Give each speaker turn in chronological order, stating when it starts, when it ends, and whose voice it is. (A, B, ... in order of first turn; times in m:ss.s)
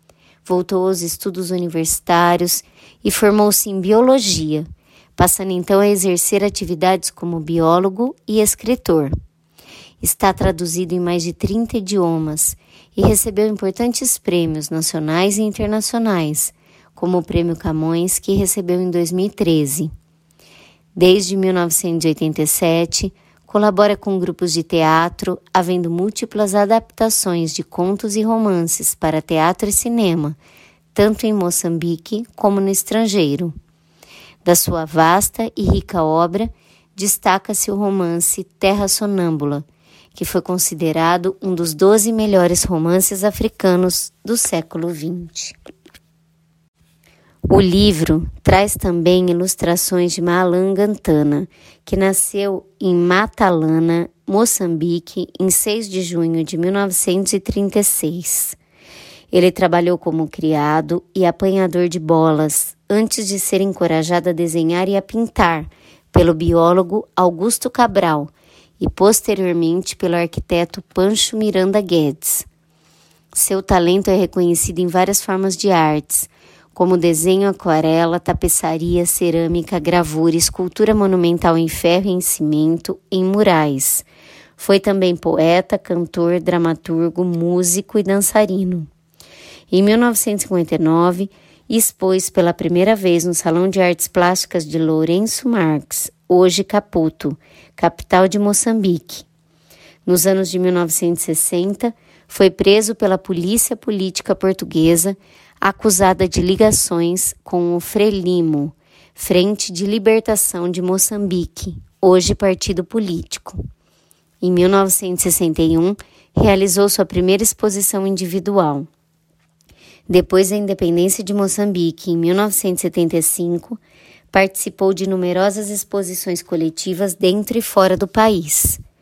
0:00.4-0:09.1 A
0:10.0-0:19.9 A
0:20.9-0:30.4 A
0:30.9-0:33.5 A
0:34.4-0:45.6 A
0:47.5-0:58.6 A
0:59.3-1:12.5 A
1:13.3-1:28.9 A
1:29.7-1:39.2 A
1:40.0-1:53.6 A
1:54.4-1:58.9 A
2:00.1-2:03.8 A
2:04.3-2:08.8 A